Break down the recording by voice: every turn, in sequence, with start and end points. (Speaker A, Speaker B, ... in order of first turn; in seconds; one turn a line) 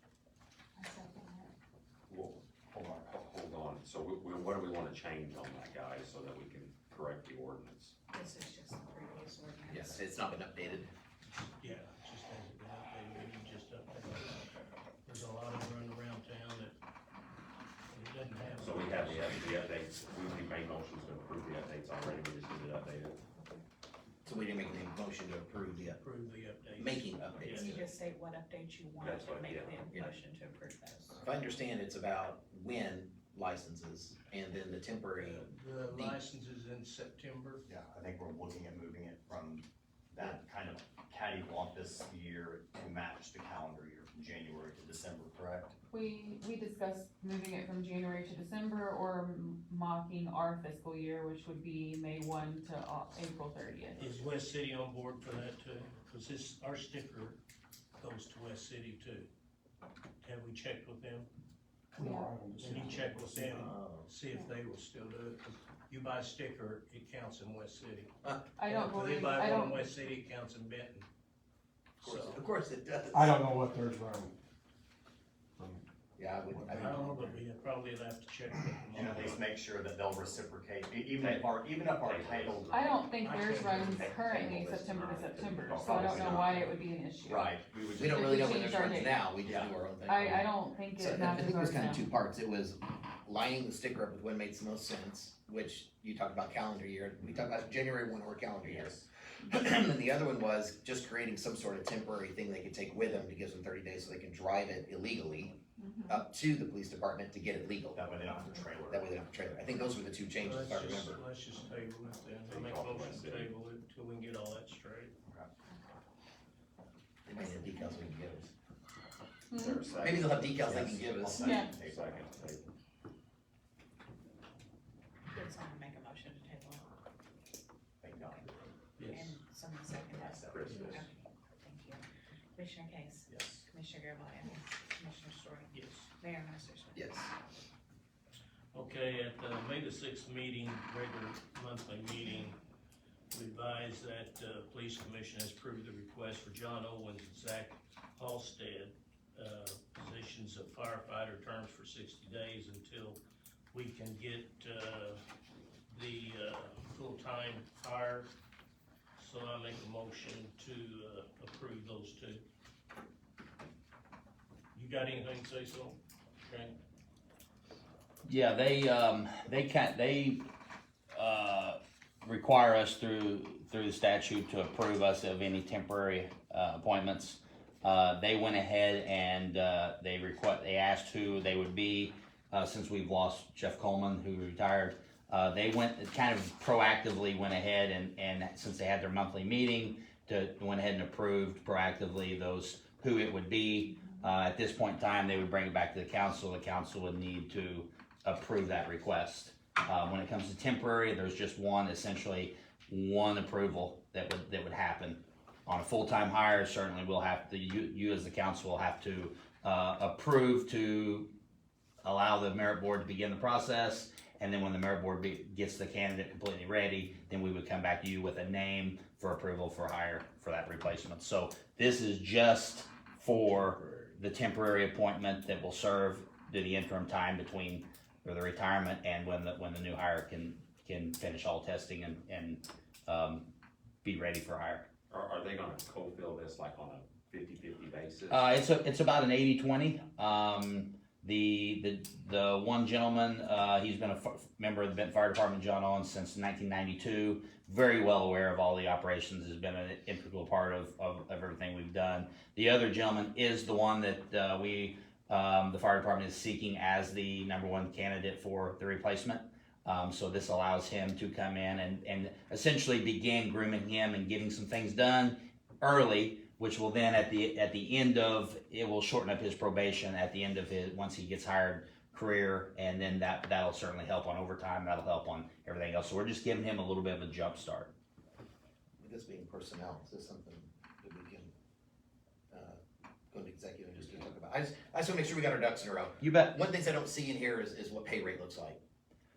Speaker A: 0.8-1.4
Speaker B: 2.1-3.2
Speaker C: 3.1-7.9
Speaker A: 8.1-10.0
Speaker D: 9.7-10.9
Speaker E: 11.3-14.4
Speaker E: 15.0-16.8
Speaker E: 17.9-19.6
Speaker C: 18.6-23.2
Speaker D: 24.2-26.0
Speaker E: 25.8-27.8
Speaker D: 26.8-27.9
Speaker A: 27.4-31.2
Speaker C: 29.0-30.0
Speaker D: 31.2-36.2
Speaker E: 35.2-37.6
Speaker B: 37.7-45.7
Speaker F: 45.9-54.2
Speaker E: 54.0-57.4
Speaker E: 58.0-59.3
Speaker E: 60.2-61.3
Speaker G: 61.9-63.8
Speaker F: 62.0-62.3
Speaker E: 62.5-71.1
Speaker D: 63.7-64.1
Speaker F: 68.6-69.9
Speaker E: 72.0-72.4
Speaker D: 72.0-73.4
Speaker G: 73.1-74.3
Speaker G: 75.5-75.8
Speaker D: 76.2-77.3
Speaker G: 76.5-77.0
Speaker E: 76.7-79.4
Speaker B: 78.9-82.8
Speaker C: 81.2-86.6
Speaker F: 82.7-87.5
Speaker E: 83.2-84.2
Speaker B: 85.8-86.5
Speaker D: 87.2-105.5
Speaker B: 87.3-88.6
Speaker F: 88.1-89.2
Speaker B: 89.4-89.7
Speaker F: 90.0-92.0
Speaker B: 98.6-99.0
Speaker F: 105.8-106.2
Speaker D: 106.1-108.0
Speaker B: 107.9-109.9
Speaker D: 108.9-111.2
Speaker E: 110.4-115.1
Speaker C: 112.5-113.5
Speaker D: 117.2-118.5
Speaker A: 117.7-118.1
Speaker F: 119.5-119.8
Speaker C: 119.5-122.6
Speaker D: 120.0-121.7
Speaker B: 120.6-122.3
Speaker A: 125.3-126.9
Speaker B: 128.0-128.7
Speaker E: 129.0-129.4
Speaker A: 129.1-132.0
Speaker B: 130.1-130.7
Speaker C: 130.5-131.0
Speaker A: 132.6-137.1
Speaker B: 133.3-133.7
Speaker E: 135.7-136.1
Speaker D: 136.9-137.3
Speaker E: 138.7-142.6
Speaker E: 143.3-153.2
Speaker E: 153.7-155.2
Speaker E: 155.9-158.3
Speaker E: 159.2-162.4
Speaker E: 164.7-166.8
Speaker H: 168.2-170.4
Speaker H: 171.1-211.3
Speaker H: 212.0-233.5
Speaker H: 234.0-234.9
Speaker C: 235.1-238.5
Speaker H: 238.3-277.9
Speaker D: 279.0-281.5
Speaker D: 282.5-282.8
Speaker D: 283.3-288.8
Speaker H: 286.2-286.6